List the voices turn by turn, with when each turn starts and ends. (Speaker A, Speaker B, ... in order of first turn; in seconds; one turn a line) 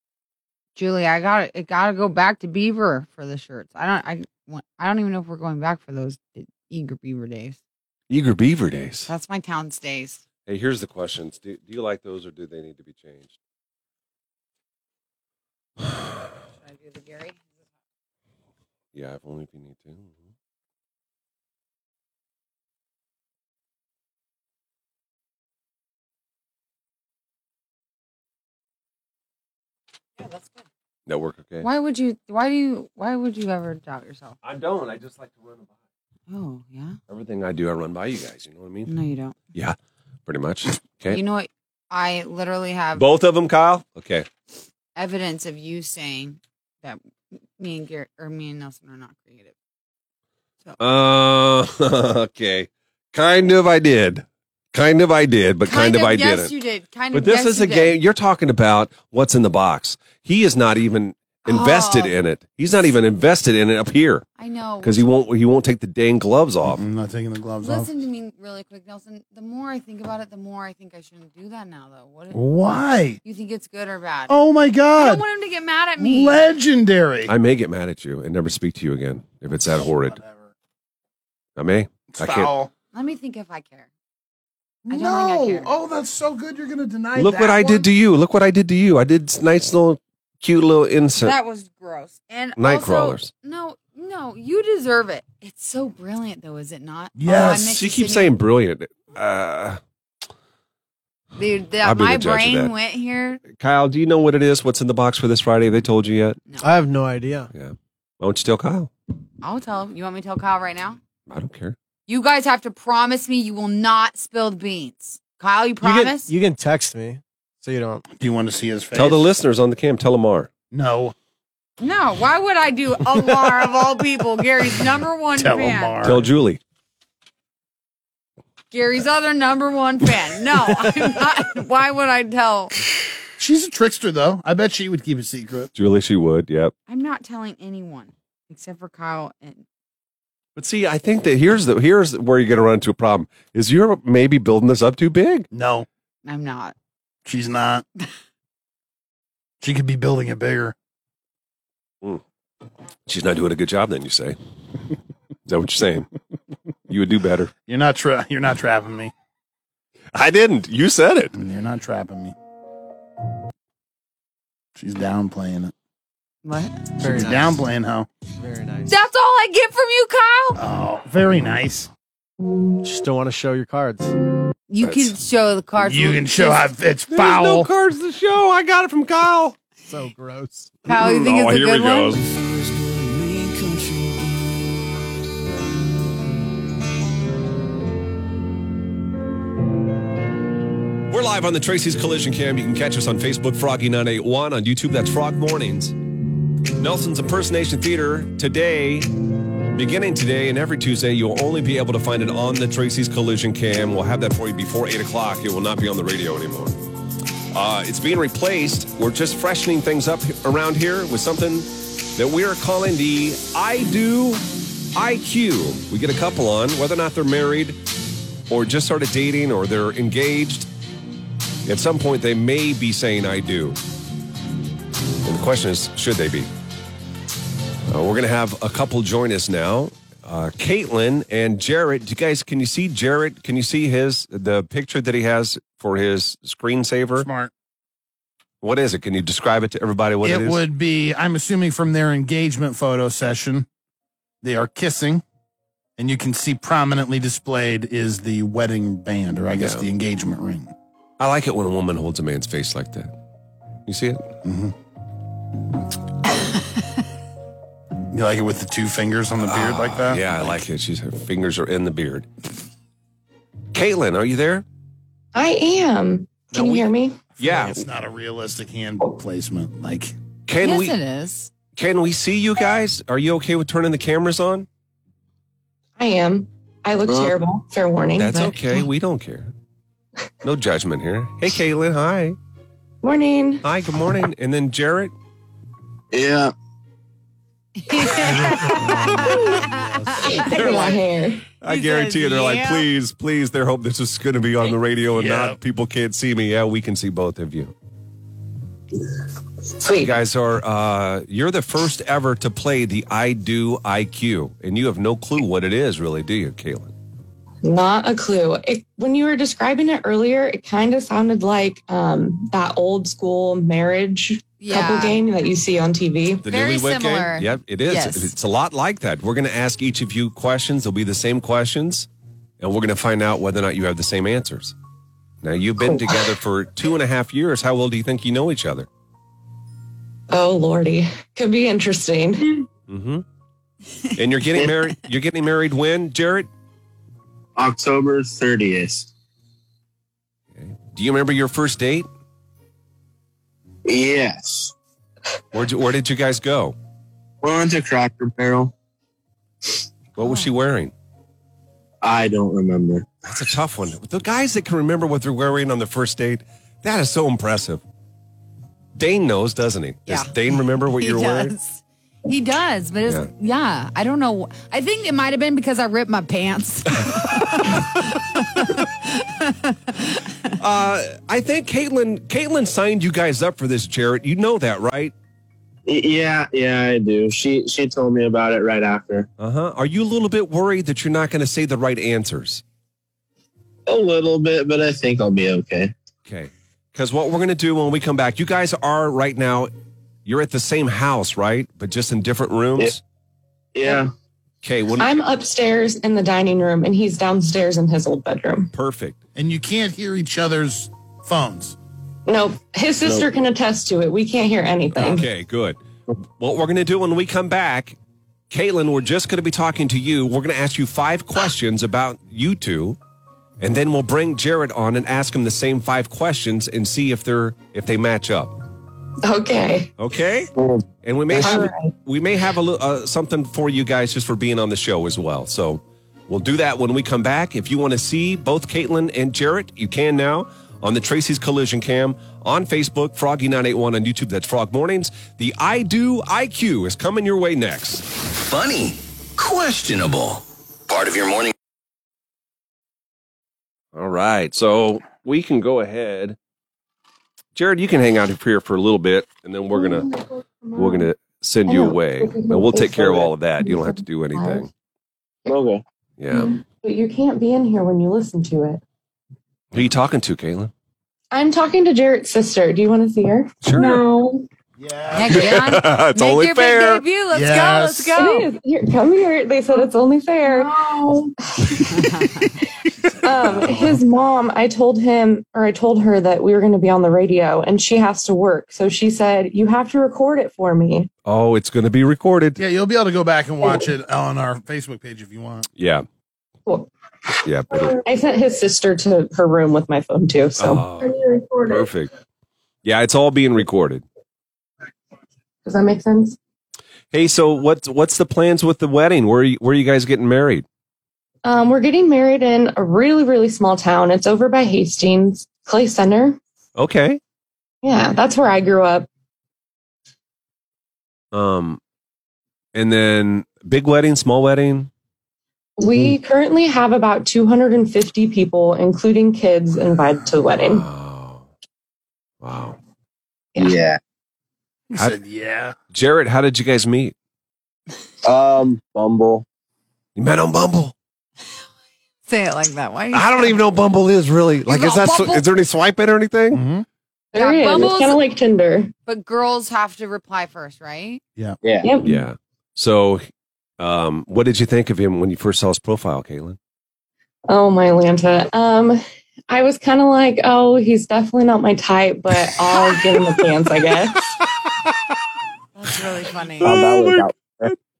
Speaker A: 0.8-7.6
Speaker B: 8.1-9.1
Speaker A: 9.1-10.2
Speaker B: 10.5-13.3
Speaker A: 16.6-17.6
Speaker B: 18.9-20.2
Speaker A: 30.2-30.6
Speaker B: 31.1-31.6
Speaker A: 31.6-34.4
Speaker B: 34.4-35.7
Speaker A: 36.3-37.0
Speaker B: 37.1-38.9
Speaker A: 38.9-39.4
Speaker B: 40.3-41.2
Speaker A: 41.1-43.0
Speaker B: 43.0-44.3
Speaker A: 45.0-49.5
Speaker B: 50.8-56.5
Speaker A: 55.6-58.0
Speaker B: 57.1-64.2
Speaker A: 61.5-62.1
Speaker A: 64.4-65.0
Speaker B: 64.8-66.8
Speaker C: 66.6-67.9
Speaker A: 67.6-72.5
Speaker C: 72.3-73.2
Speaker A: 73.2-74.3
Speaker C: 74.3-75.2
Speaker A: 75.0-76.4
Speaker C: 76.0-77.3
Speaker B: 77.3-80.2
Speaker C: 79.8-80.5
Speaker B: 81.6-82.5
Speaker C: 82.1-82.7
Speaker A: 82.9-83.9
Speaker C: 84.8-87.9
Speaker A: 84.9-85.7
Speaker B: 87.1-91.3
Speaker A: 91.2-98.3
Speaker B: 92.6-93.3
Speaker C: 97.2-97.7
Speaker B: 97.5-99.8
Speaker A: 101.4-103.4
Speaker B: 101.8-102.7
Speaker B: 103.5-106.4
Speaker D: 106.6-107.5
Speaker B: 107.5-108.9
Speaker A: 109.4-111.0
Speaker B: 111.3-111.8
Speaker A: 112.1-116.3
Speaker D: 115.8-118.0
Speaker C: 118.1-119.2
Speaker B: 118.9-120.5
Speaker C: 120.7-121.1
Speaker A: 121.8-126.0
Speaker C: 125.4-126.2
Speaker B: 126.0-126.6
Speaker A: 128.7-132.7
Speaker C: 133.4-135.7
Speaker B: 135.8-136.7
Speaker A: 136.9-139.6
Speaker B: 140.6-145.5
Speaker C: 145.5-145.9
Speaker A: 146.2-146.7
Speaker C: 147.2-147.8
Speaker C: 149.6-150.7
Speaker B: 153.1-154.4
Speaker B: 155.5-156.1
Speaker B: 156.9-157.5
Speaker C: 157.7-159.1
Speaker B: 160.1-161.3
Speaker C: 161.3-162.3
Speaker C: 164.7-165.7
Speaker A: 166.4-166.8
Speaker D: 167.0-167.6
Speaker C: 167.1-168.1
Speaker D: 168.3-168.9
Speaker A: 168.9-170.6
Speaker C: 170.5-171.9
Speaker D: 172.8-174.1
Speaker A: 174.7-176.7
Speaker B: 174.8-175.1
Speaker C: 175.8-177.7
Speaker B: 177.1-179.6
Speaker D: 179.8-180.8
Speaker A: 180.8-182.2
Speaker B: 180.9-182.2
Speaker D: 182.2-184.5
Speaker B: 191.1-195.9
Speaker B: 196.8-199.1
Speaker B: 199.7-206.8
Speaker B: 207.5-214.4
Speaker B: 214.9-217.8
Speaker B: 218.5-220.7
Speaker B: 221.6-223.8
Speaker B: 225.2-226.5
Speaker B: 227.9-237.3
Speaker C: 237.2-237.5
Speaker B: 238.6-240.6
Speaker C: 240.2-243.7
Speaker C: 244.4-245.2
Speaker C: 246.0-250.7
Speaker B: 249.5-249.8
Speaker B: 251.2-253.1
Speaker B: 253.9-254.3
Speaker C: 254.4-254.7
Speaker C: 258.1-260.6
Speaker B: 259.4-262.3
Speaker B: 263.7-264.6
Speaker E: 265.3-267.3
Speaker C: 266.5-266.8
Speaker C: 267.4-270.1
Speaker B: 267.4-267.8
Speaker B: 270.5-270.9
Speaker A: 270.6-271.5
Speaker B: 271.8-274.7
Speaker E: 276.0-278.8
Speaker F: 277.1-277.3
Speaker B: 278.1-279.5
Speaker B: 280.4-282.4
Speaker E: 283.0-283.6
Speaker B: 283.6-285.1
Speaker F: 286.1-286.5
Speaker A: 287.8-290.9
Speaker E: 290.2-291.5
Speaker B: 290.4-291.0
Speaker B: 291.6-297.7
Speaker A: 291.6-292.9
Speaker C: 295.1-295.6
Speaker E: 299.8-300.2
Speaker B: 299.9-306.9
Speaker E: 307.6-316.4
Speaker A: 314.6-315.2
Speaker B: 316.4-322.1
Speaker A: 316.4-318.3
Speaker B: 322.6-324.7
Speaker B: 325.4-328.9
Speaker E: 325.9-326.3
Speaker E: 330.3-332.6
Speaker B: 332.9-333.2
Speaker B: 334.1-336.5
Speaker F: 337.6-339.1
Speaker B: 340.5-342.1
Speaker F: 343.9-344.7
Speaker B: 345.5-346.7
Speaker F: 347.4-348.7
Speaker B: 350.1-350.9
Speaker A: 350.2-350.5
Speaker F: 352.0-353.1
Speaker B: 353.2-357.8
Speaker B: 358.9-361.5
Speaker A: 360.1-370.5
Speaker B: 370.6-375.1
Speaker F: 375.9-379.3
Speaker B: 379.4-382.6
Speaker F: 383.9-385.9
Speaker B: 386.2-389.7
Speaker B: 390.2-393.0
Speaker F: 393.7-394.1
Speaker B: 394.6-395.2
Speaker E: 395.0-398.7
Speaker B: 398.7-399.2
Speaker C: 399.4-401.8
Speaker E: 402.3-405.3
Speaker B: 404.9-405.8
Speaker B: 406.4-408.0
Speaker B: 408.5-413.0
Speaker B: 413.6-418.5
Speaker E: 419.2-419.9
Speaker B: 420.0-420.5
Speaker F: 420.6-420.8
Speaker B: 421.0-438.0
Speaker E: 421.3-421.9
Speaker G: 438.2-441.5
Speaker B: 443.9-446.4
Speaker B: 447.5-450.1
Speaker E: 449.7-451.1
Speaker B: 450.7-454.7
Speaker E: 451.6-454.7
Speaker F: 455.5-455.8
Speaker B: 456.2-456.6
Speaker E: 456.3-458.8
Speaker B: 459.7-460.7
Speaker E: 461.3-464.5
Speaker B: 463.6-464.0
Speaker C: 464.8-465.5
Speaker A: 465.1-468.5
Speaker B: 465.3-467.0
Speaker C: 467.3-468.1
Speaker E: 468.1-472.1
Speaker A: 471.9-472.5
Speaker E: 473.2-481.1
Speaker C: 473.4-474.0
Speaker B: 481.2-482.6
Speaker C: 482.6-485.7
Speaker B: 485.8-486.1
Speaker B: 487.4-488.0
Speaker E: 487.7-491.9
Speaker B: 490.6-492.1
Speaker B: 492.8-494.0
Speaker E: 495.6-496.4
Speaker B: 497.1-500.6
Speaker E: 501.4-506.4
Speaker B: 506.8-507.2
Speaker E: 507.8-509.1
Speaker B: 511.3-511.8
Speaker B: 512.7-514.9
Speaker E: 515.8-520.9
Speaker B: 520.5-521.5
Speaker B: 522.4-522.8
Speaker F: 523.5-524.0
Speaker C: 524.9-525.7
Speaker B: 525.9-527.1
Speaker F: 528.2-529.5
Speaker B: 530.1-530.9
Speaker A: 532.3-533.6
Speaker B: 533.1-536.6
Speaker A: 534.7-535.4
Speaker C: 536.5-536.9
Speaker E: 537.3-538.9
Speaker A: 537.4-538.2
Speaker A: 539.0-541.2
Speaker F: 541.6-541.9
Speaker E: 541.8-542.2
Speaker B: 542.0-546.6
Speaker E: 547.5-554.2
Speaker A: 555.8-556.7
Speaker B: 556.6-557.5
Speaker F: 556.6-557.7